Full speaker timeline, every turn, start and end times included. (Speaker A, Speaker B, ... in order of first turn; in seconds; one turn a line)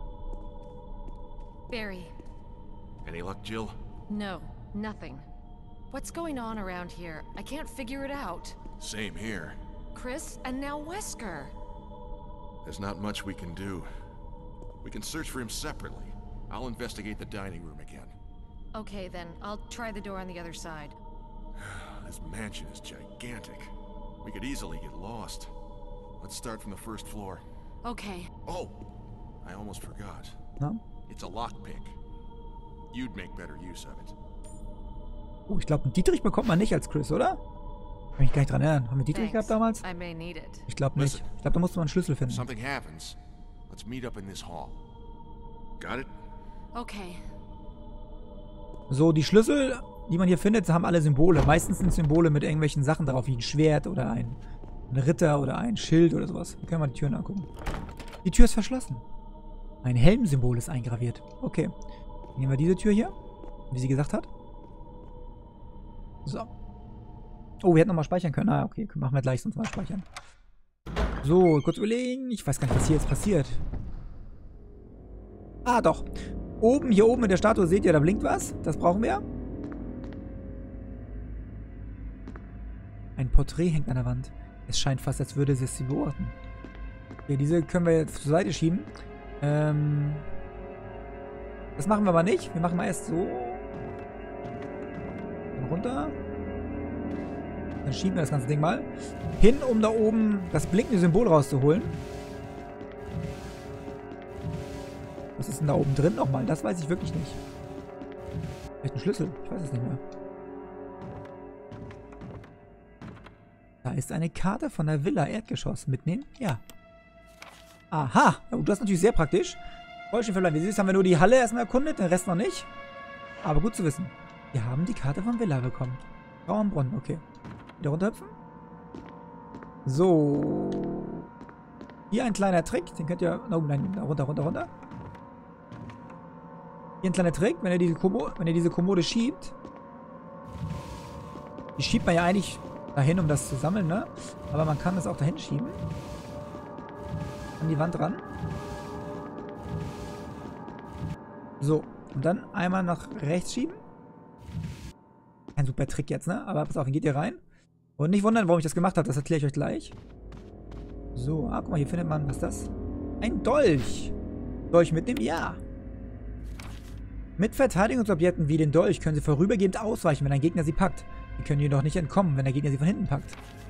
Speaker A: 1.7-2.1
Speaker B: 3.0-3.8
Speaker A: 4.1-5.2
Speaker A: 5.9-8.6
Speaker B: 8.8-9.6
Speaker A: 9.9-11.5
Speaker B: 12.6-13.9
Speaker B: 14.8-18.1
Speaker A: 18.8-20.9
Speaker B: 21.6-25.5
Speaker B: 26.2-27.4
Speaker A: 27.9-28.3
Speaker B: 28.4-28.8
Speaker B: 29.4-30.4
Speaker B: 31.1-32.0
Speaker B: 32.9-34.1
Speaker C: 35.5-37.4
Speaker C: 38.2-39.8
Speaker A: 39.1-40.7
Speaker C: 40.7-42.5
Speaker B: 41.0-41.2
Speaker B: 42.3-43.2
Speaker B: 43.7-44.8
Speaker B: 45.8-46.1
Speaker A: 46.8-47.2
Speaker C: 48.9-54.4
Speaker C: 54.9-57.5
Speaker C: 58.2-59.0
Speaker C: 59.8-61.7
Speaker C: 62.4-63.1
Speaker C: 63.7-64.3
Speaker C: 67.6-70.1
Speaker C: 71.2-73.6
Speaker C: 75.7-76.1
Speaker C: 76.6-79.2
Speaker C: 83.2-86.4
Speaker C: 87.3-88.9
Speaker C: 89.4-90.3
Speaker C: 91.8-93.7
Speaker C: 95.5-96.2
Speaker C: 97.8-102.0
Speaker C: 105.4-107.4
Speaker C: 108.8-110.0
Speaker C: 113.8-116.6
Speaker C: 117.9-119.6
Speaker C: 120.1-122.7
Speaker C: 123.4-127.2
Speaker C: 127.8-128.3
Speaker C: 129.8-131.3
Speaker C: 132.1-134.7
Speaker C: 137.0-139.6
Speaker C: 141.8-145.8
Speaker C: 147.6-148.2
Speaker C: 151.6-153.8
Speaker C: 155.6-157.4
Speaker C: 158.0-160.0
Speaker C: 161.2-164.1
Speaker C: 164.7-165.6
Speaker C: 167.4-173.4